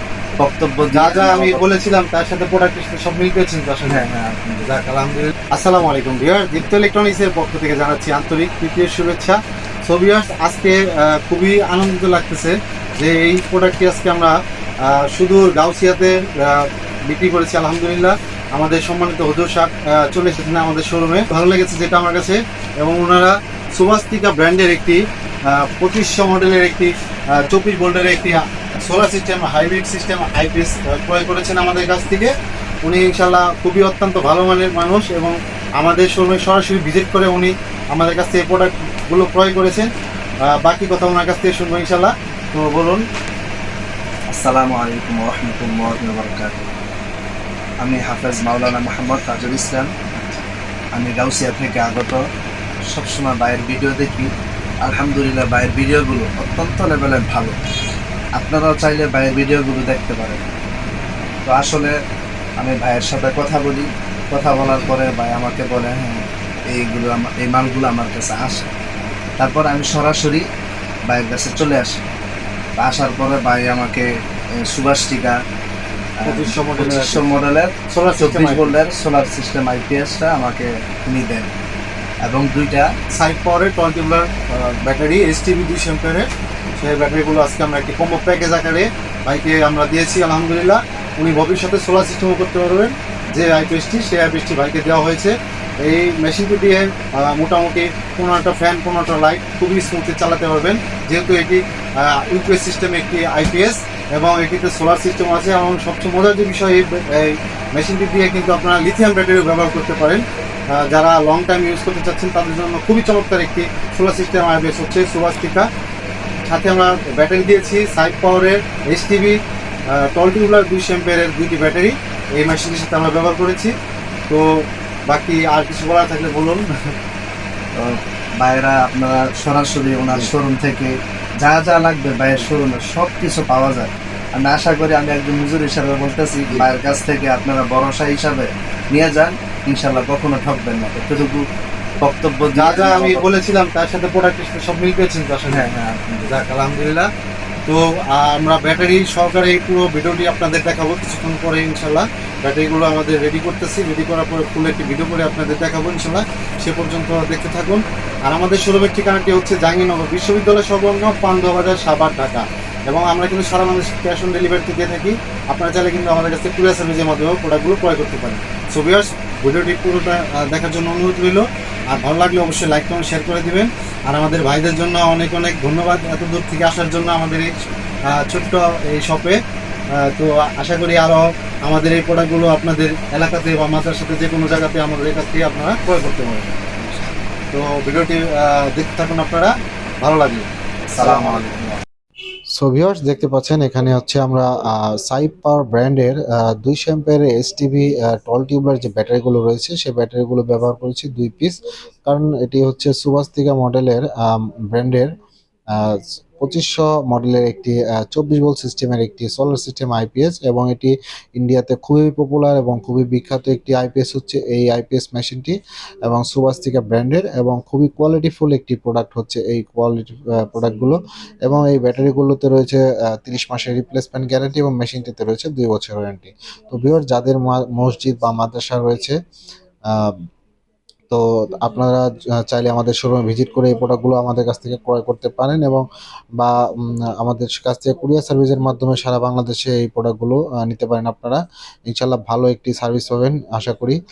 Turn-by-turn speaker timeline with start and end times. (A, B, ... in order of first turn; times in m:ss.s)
0:00.4-0:01.6 A
0:00.9-0:04.0 B
0:03.9-0:04.6 A
0:04.6-0:32.3 B
0:32.8-0:39.9 B
0:40.6-0:43.0 B
0:44.3-0:46.6 A
0:47.8-0:49.9 A
0:50.1-0:50.4 B
0:51.0-0:52.2 A
0:52.9-0:54.3 A
0:54.8-0:57.5 A
0:58.4-1:00.4 A
1:01.5-1:01.9 A
1:02.6-1:06.2 A
1:06.7-1:08.7 A
1:09.4-1:10.4 A
1:11.1-1:12.0 A
1:12.8-1:14.0 A
1:14.7-1:15.4 A
1:16.2-1:21.5 A
1:16.2-1:17.2 B
1:17.9-1:18.7 B
1:22.2-1:22.9 A
1:23.1-1:26.3 B
1:26.8-1:50.2 B
1:50.7-1:55.6 B
1:56.4-1:59.4 B
1:59.9-2:03.7 B
2:05.1-2:06.6 B
2:07.8-2:21.4 A
2:22.0-2:23.2 A
2:22.5-2:25.6 B
2:25.5-2:26.2 A
2:26.2-2:27.1 B
2:27.7-2:57.5 B
2:58.1-2:59.4 B
3:00.0-3:07.0 B
3:07.5-3:10.4 B
3:10.9-3:11.8 A
3:11.0-3:11.6 B
3:12.6-3:25.1 C
3:25.7-3:35.5 C
3:36.1-3:49.2 C
3:51.1-3:55.8 C
3:57.2-4:04.0 C